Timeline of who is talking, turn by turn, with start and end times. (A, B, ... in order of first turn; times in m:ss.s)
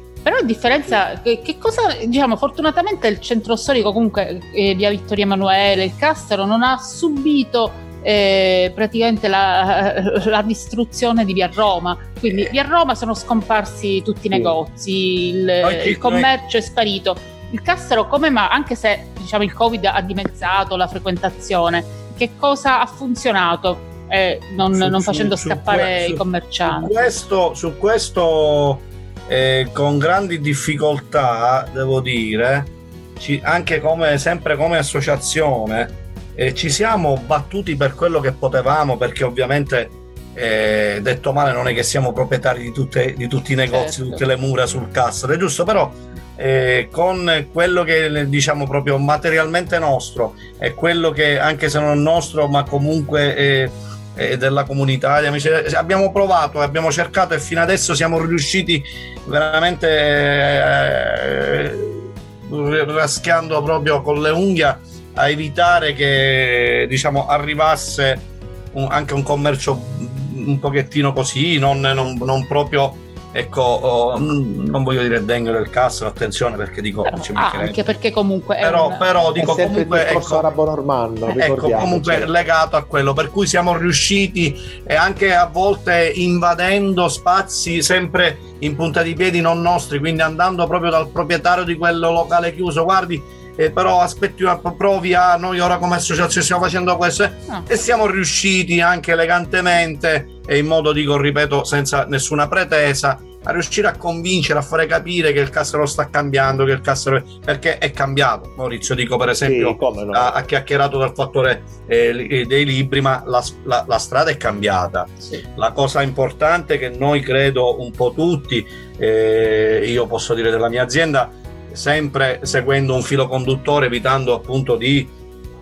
0:00.2-0:27.1 A
0:00.7-0:01.0 B
0:14.3-0:14.6 B
0:15.6-0:16.3 C
0:24.6-1:17.8 C
0:43.7-0:44.3 A
1:17.0-1:19.1 A
1:18.6-1:20.5 C
1:19.4-1:22.3 B
1:21.3-2:05.1 C
1:49.4-1:50.4 B